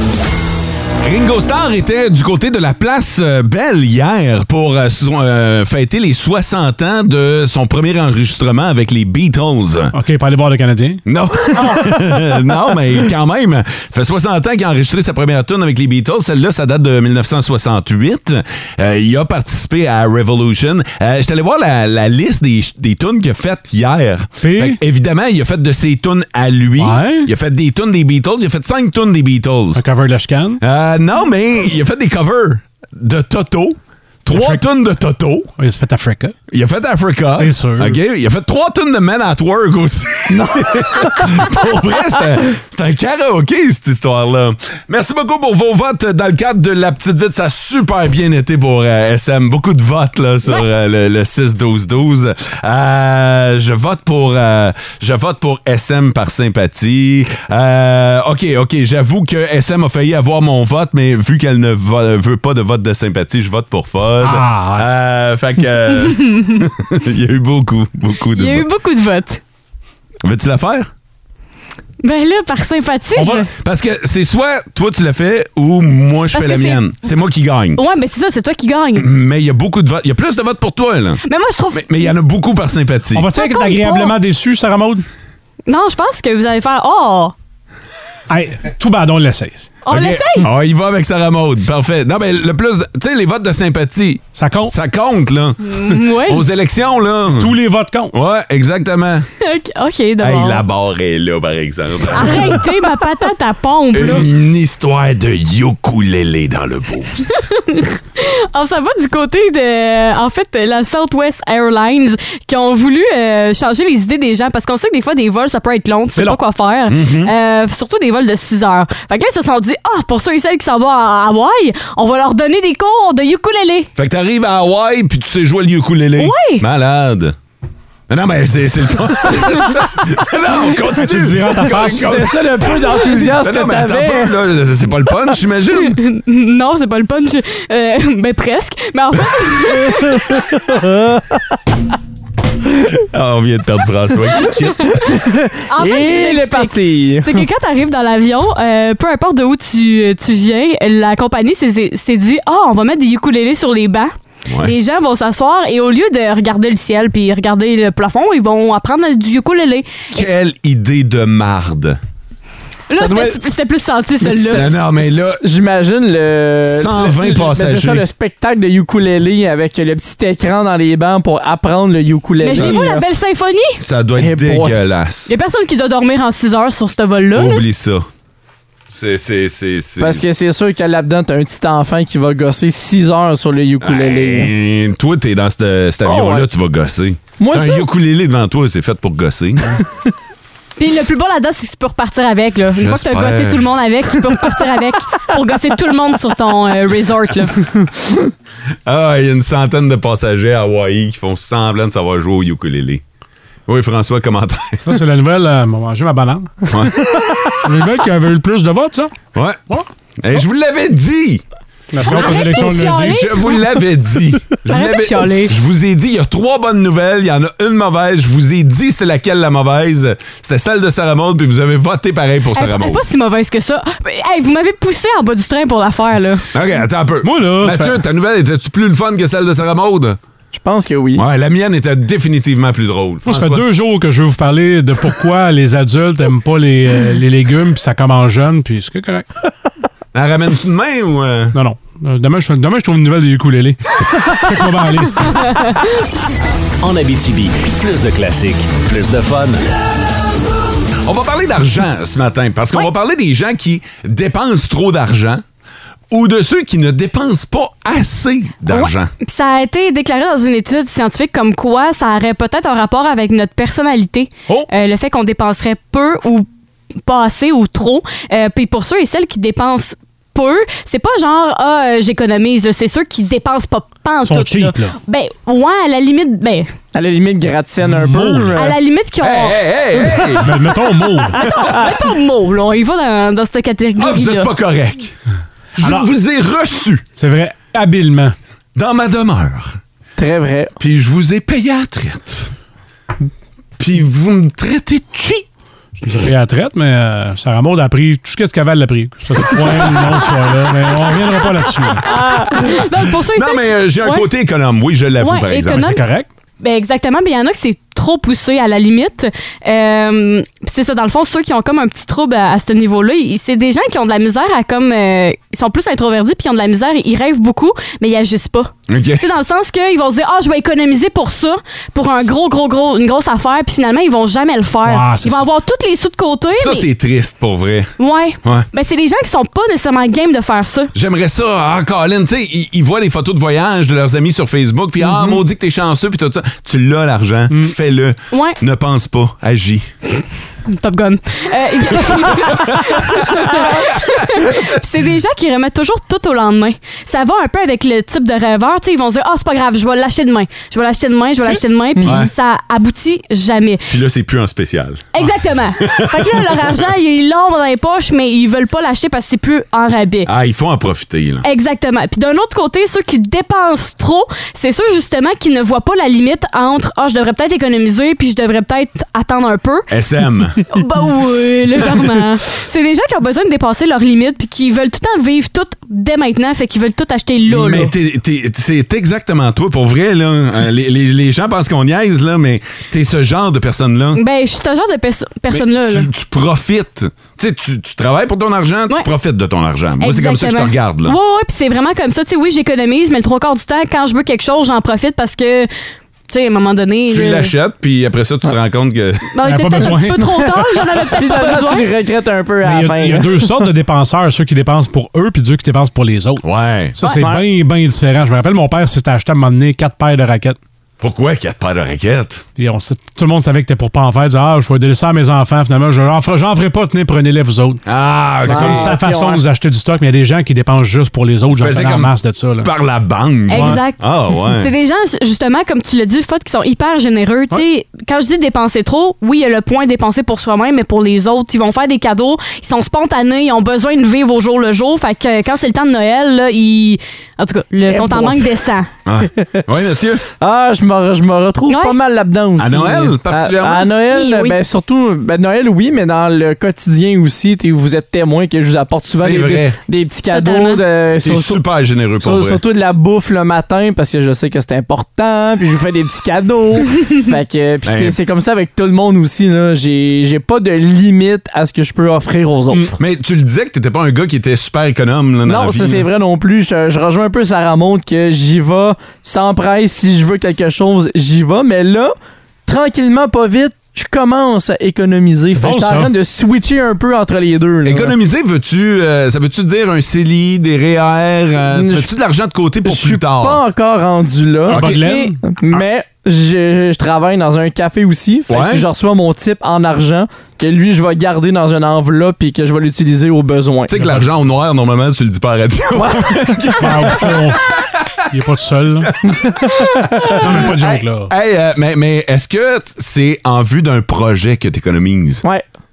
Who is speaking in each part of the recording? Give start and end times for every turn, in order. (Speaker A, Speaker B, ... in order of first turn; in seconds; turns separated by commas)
Speaker A: 1.0-9.9, Speaker B: 9.9-11.0, Speaker A: 11.1-29.8, Speaker B: 24.4-24.8, Speaker B: 26.8-27.3, Speaker B: 29.7-30.6, Speaker A: 30.6-35.5, Speaker B: 34.3-34.6, Speaker B: 35.6-36.3, Speaker A: 36.5-68.7, Speaker B: 37.3-38.0, Speaker B: 64.2-64.8, Speaker C: 68.3-69.4, Speaker A: 70.2-70.9, Speaker C: 72.0-73.5, Speaker B: 73.2-73.4, Speaker A: 73.6-77.8, Speaker C: 76.3-76.9, Speaker C: 77.8-79.1, Speaker A: 79.0-81.2, Speaker C: 81.2-82.1, Speaker A: 81.7-83.3, Speaker B: 83.1-85.0, Speaker C: 83.3-84.2, Speaker C: 85.7-87.3, Speaker B: 88.3-89.8, Speaker C: 89.8-90.5, Speaker A: 89.9-97.5, Speaker B: 94.3-94.7, Speaker C: 95.6-96.4, Speaker B: 97.3-98.1, Speaker A: 98.1-99.3, Speaker C: 99.4-100.6, Speaker A: 100.2-102.6, Speaker C: 102.1-104.3, Speaker A: 103.9-107.5, Speaker C: 107.4-123.9, Speaker A: 116.9-117.3, Speaker A: 124.0-127.3, Speaker C: 126.2-126.6, Speaker A: 128.1-136.0, Speaker B: 130.9-132.1, Speaker D: 131.8-134.3, Speaker C: 135.8-140.4, Speaker D: 140.7-141.3, Speaker A: 143.0-145.1, Speaker D: 145.1-147.4, Speaker C: 145.7-160.2, Speaker A: 154.5-154.7, Speaker A: 160.1-162.0, Speaker C: 162.9-164.8, Speaker D: 162.9-163.4, Speaker D: 164.2-173.1, Speaker A: 164.5-165.4, Speaker A: 166.7-168.1, Speaker C: 172.4-173.8, Speaker A: 172.5-173.0, Speaker A: 173.8-175.3, Speaker D: 174.2-174.8, Speaker C: 175.3-177.6, Speaker A: 177.3-178.1, Speaker A: 178.9-180.2, Speaker D: 180.0-184.5, Speaker A: 183.8-189.8, Speaker D: 186.0-186.5, Speaker D: 187.4-187.8, Speaker C: 190.8-197.7, Speaker A: 192.8-193.7, Speaker A: 198.8-203.0, Speaker A: 203.7-205.0, Speaker B: 204.8-206.6, Speaker A: 206.7-207.4, Speaker B: 207.5-209.1, Speaker A: 209.3-209.6, Speaker A: 210.2-211.4, Speaker B: 211.9-213.3, Speaker A: 212.0-223.0, Speaker C: 212.0-213.6, Speaker C: 214.7-215.5, Speaker C: 222.5-226.4, Speaker A: 226.5-230.2, Speaker B: 227.2-228.0, Speaker D: 230.5-231.2, Speaker A: 231.2-233.6, Speaker B: 233.2-239.2, Speaker A: 240.1-241.6, Speaker B: 241.5-245.6, Speaker E: 246.8-249.6, Speaker A: 251.0-255.4, Speaker A: 256.1-259.1, Speaker C: 258.7-266.5, Speaker C: 267.0-276.7, Speaker B: 274.2-275.0, Speaker D: 276.9-278.8, Speaker B: 277.8-278.6, Speaker C: 278.6-279.6, Speaker A: 279.2-280.6, Speaker B: 280.4-281.5, Speaker C: 281.3-284.5, Speaker A: 284.0-285.1, Speaker A: 285.8-287.0, Speaker B: 285.8-286.1, Speaker B: 287.1-288.3, Speaker A: 288.7-289.8, Speaker D: 290.2-290.7, Speaker A: 290.8-292.5, Speaker A: 293.8-295.4, Speaker B: 296.0-302.1, Speaker C: 302.0-304.3, Speaker D: 302.1-302.4, Speaker A: 303.2-305.9, Speaker C: 305.2-326.9, Speaker B: 305.7-306.3, Speaker A: 318.9-319.3, Speaker B: 324.8-325.4, Speaker A: 326.5-328.7, Speaker C: 328.0-330.9, Speaker A: 330.9-339.9, Speaker C: 338.3-338.6, Speaker C: 340.7-353.9, Speaker A: 342.5-343.6, Speaker A: 352.0-352.3, Speaker A: 353.9-355.2, Speaker C: 355.1-360.3, Speaker A: 355.8-356.8, Speaker A: 360.2-361.4, Speaker C: 361.4-369.9, Speaker A: 369.9-370.6, Speaker C: 370.7-377.9, Speaker A: 377.5-384.2, Speaker C: 384.1-386.1, Speaker A: 385.5-391.2, Speaker C: 390.0-395.7, Speaker C: 396.3-397.5, Speaker A: 397.1-399.3, Speaker C: 399.3-401.9, Speaker B: 399.4-400.3, Speaker D: 400.9-403.6, Speaker B: 402.6-406.4, Speaker A: 406.4-406.9, Speaker B: 407.0-410.6, Speaker D: 407.0-407.4, Speaker A: 411.0-412.4, Speaker B: 412.6-417.8, Speaker A: 417.9-418.9, Speaker D: 418.4-419.4, Speaker B: 418.4-422.7, Speaker A: 421.5-424.7, Speaker C: 423.5-438.9, Speaker B: 423.5-423.8, Speaker D: 437.9-438.4, Speaker A: 439.1-440.2, Speaker D: 440.4-451.6, Speaker C: 441.7-441.9, Speaker A: 442.6-443.9, Speaker C: 444.1-444.6, Speaker A: 449.1-449.8, Speaker C: 450.3-450.8, Speaker A: 451.2-452.6, Speaker D: 452.2-462.9, Speaker A: 457.8-458.2, Speaker A: 463.0-466.1, Speaker D: 465.4-472.1, Speaker D: 472.6-478.1, Speaker B: 475.5-476.1, Speaker A: 477.8-483.6, Speaker D: 481.7-482.1, Speaker D: 482.8-494.0, Speaker A: 484.7-485.0, Speaker B: 484.7-485.4, Speaker A: 488.5-488.8, Speaker A: 493.9-497.9, Speaker D: 495.9-496.8, Speaker B: 496.8-497.7, Speaker B: 498.3-499.1, Speaker B: 500.4-501.3, Speaker A: 500.4-505.4